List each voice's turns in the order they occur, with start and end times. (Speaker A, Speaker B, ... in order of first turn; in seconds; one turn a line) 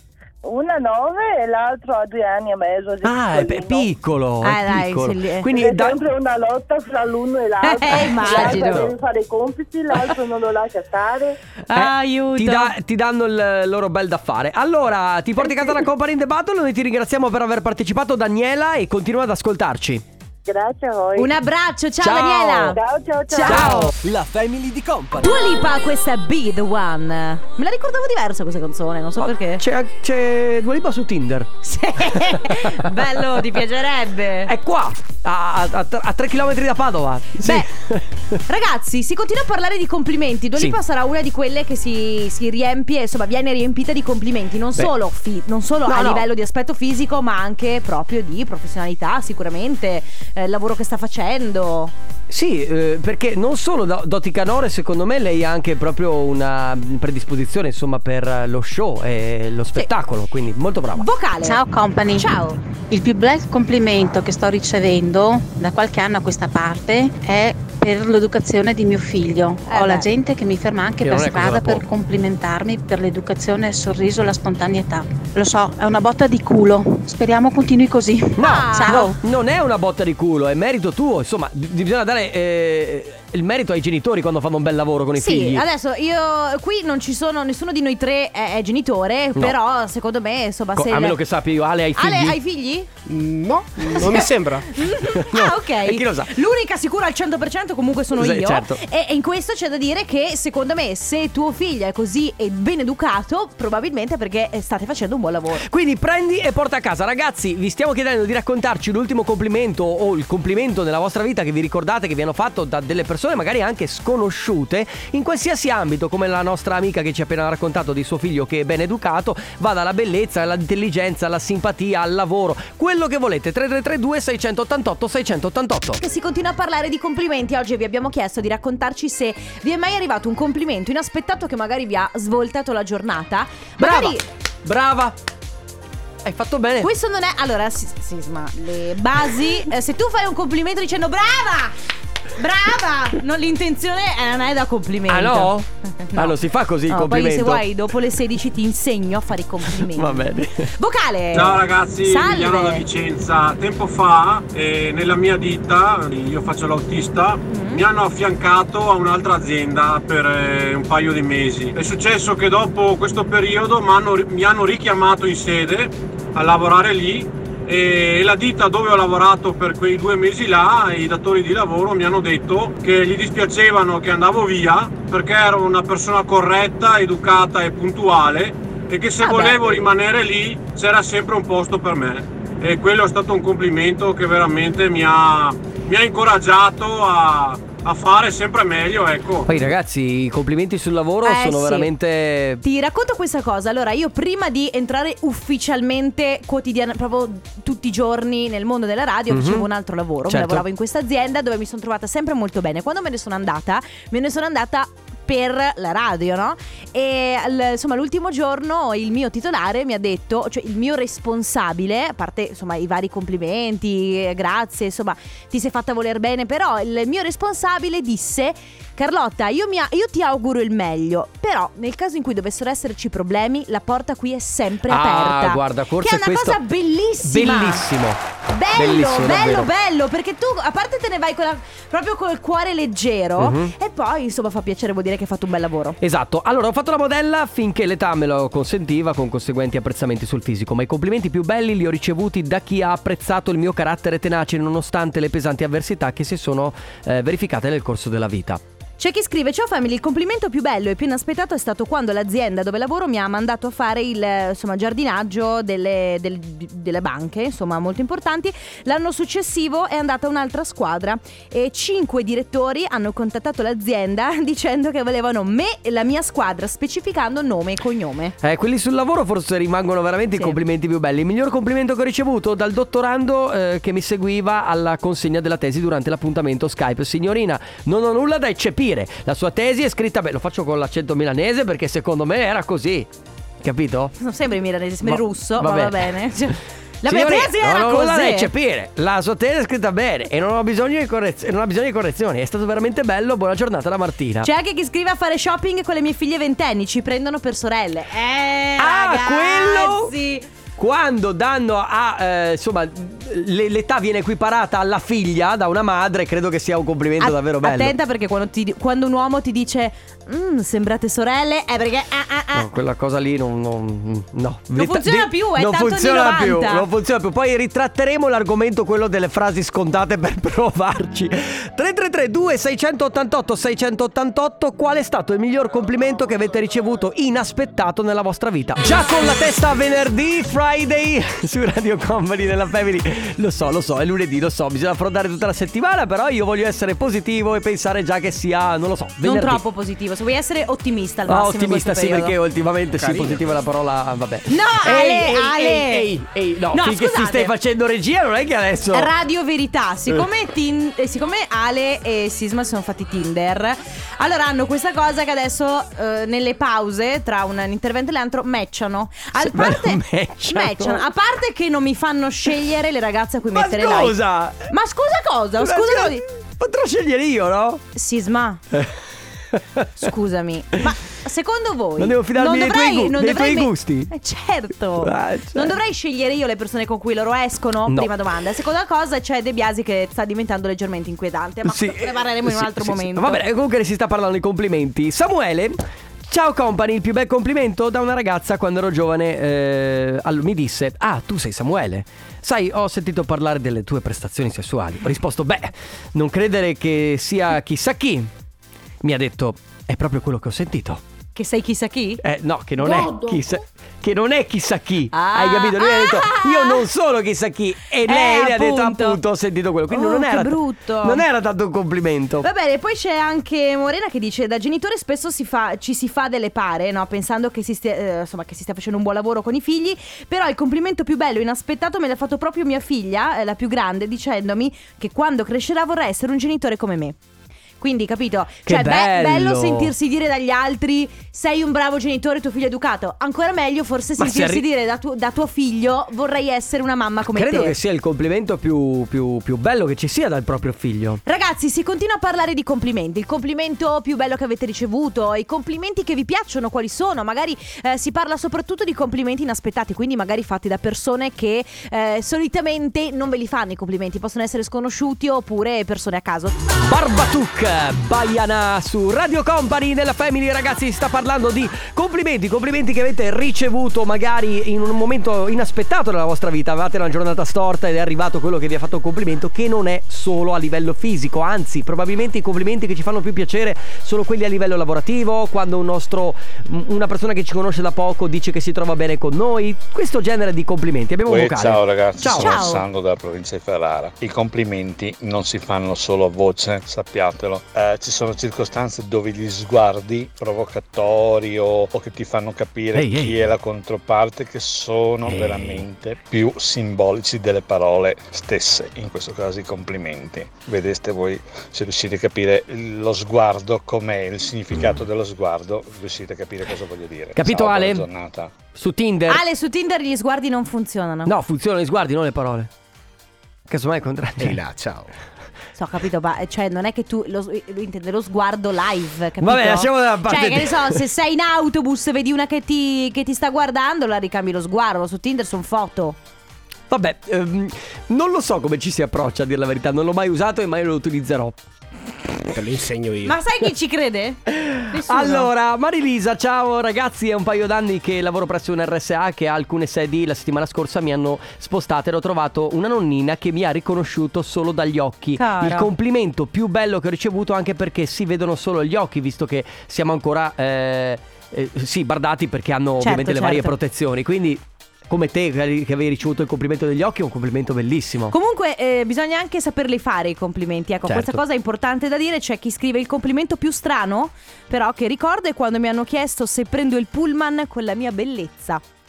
Speaker A: 0.4-3.9
Speaker B: 3.0-6.0
Speaker C: 4.4-5.5
Speaker A: 5.4-11.3
Speaker C: 7.6-8.9
Speaker B: 7.9-8.9
Speaker C: 11.6-12.7
Speaker B: 11.7-20.0
Speaker C: 15.4-15.8
Speaker A: 20.4-21.3
Speaker C: 21.1-22.8
Speaker B: 22.0-22.8
Speaker A: 22.7-23.8
Speaker C: 23.3-23.9
Speaker B: 23.4-25.3
Speaker C: 25.2-29.6
Speaker B: 29.2-33.1
Speaker C: 31.6-34.5
Speaker B: 34.4-38.4
Speaker C: 37.4-37.7
Speaker C: 38.5-51.9
Speaker B: 45.9-46.3
Speaker B: 52.3-61.1
Speaker C: 60.9-61.6
Speaker D: 61.4-79.2
Speaker C: 62.1-62.6
Speaker C: 69.7-70.1
Speaker B: 71.0-71.8
Speaker B: 78.4-85.6
Speaker C: 78.4-79.1
Speaker C: 85.2-91.2
Speaker B: 90.7-92.4
Speaker C: 92.0-92.9
Speaker E: 93.0-94.7
Speaker C: 93.9-105.7
Speaker B: 95.0-96.3
Speaker B: 98.1-98.8
Speaker B: 105.5-126.0
Speaker C: 126.0-134.2
Speaker B: 133.8-135.2
Speaker B: 136.2-136.9
Speaker C: 136.8-141.7
Speaker C: 142.3-146.3
Speaker B: 145.1-147.6
Speaker C: 146.9-152.8
Speaker B: 149.6-150.7
Speaker F: 151.3-189.5
Speaker C: 157.5-157.8
Speaker C: 179.2-179.9
Speaker B: 189.4-192.6
Speaker C: 191.2-191.9
Speaker C: 192.6-227.8
Speaker B: 199.3-199.7
Speaker B: 200.2-200.6
Speaker B: 224.9-226.6
Speaker B: 227.2-228.2
Speaker C: 228.5-236.0
Speaker B: 228.7-229.7
Speaker B: 233.4-233.7
Speaker B: 236.0-248.6
Speaker C: 249.0-268.4
Speaker B: 268.4-283.1
Speaker B: 283.6-284.1
Speaker C: 284.2-288.5
Speaker B: 285.0-286.5
Speaker B: 287.0-294.5
Speaker C: 294.4-300.4
Speaker B: 298.8-300.1
Speaker B: 300.8-307.9
Speaker C: 307.2-312.7
Speaker B: 312.5-339.6
Speaker C: 314.7-316.9
Speaker C: 339.2-342.3
Speaker B: 341.3-349.1
Speaker E: 342.9-343.5
Speaker C: 344.5-346.1
Speaker E: 346.1-346.7
Speaker C: 346.7-347.5
Speaker C: 348.9-364.2
Speaker B: 359.3-361.1
Speaker B: 363.5-364.7
Speaker C: 364.7-366.2
Speaker B: 365.6-367.8
Speaker C: 367.9-368.6
Speaker B: 368.7-370.1
Speaker C: 370.0-383.4
Speaker B: 372.0-374.1
Speaker B: 375.0-375.7
Speaker B: 381.6-385.8
Speaker B: 386.3-398.3
Speaker B: 399.0-401.0
Speaker C: 401.3-402.2
Speaker B: 402.2-412.5
Speaker C: 405.1-406.9
Speaker C: 408.1-409.2
Speaker C: 409.9-411.2
Speaker C: 412.4-427.1
Speaker C: 427.8-437.7
Speaker B: 428.6-429.9
Speaker B: 434.2-434.6
Speaker B: 437.3-441.2
Speaker C: 441.2-456.5
Speaker B: 456.8-482.7
Speaker G: 481.2-508.5
Speaker C: 482.2-482.8
Speaker B: 492.9-493.5
Speaker B: 495.2-495.8
Speaker B: 507.3-508.1
Speaker B: 508.7-509.4
Speaker C: 509.3-511.3
Speaker B: 511.2-512.7
Speaker B: 513.7-514.6
Speaker E: 514.4-515.1
Speaker C: 515.8-526.2
Speaker B: 519.4-521.0
Speaker B: 526.9-531.6
Speaker E: 532.5-533.4
Speaker C: 533.2-535.5
Speaker B: 534.5-558.3
Speaker C: 545.4-545.9
Speaker C: 553.0-553.7
Speaker C: 558.3-568.8
Speaker B: 561.1-561.4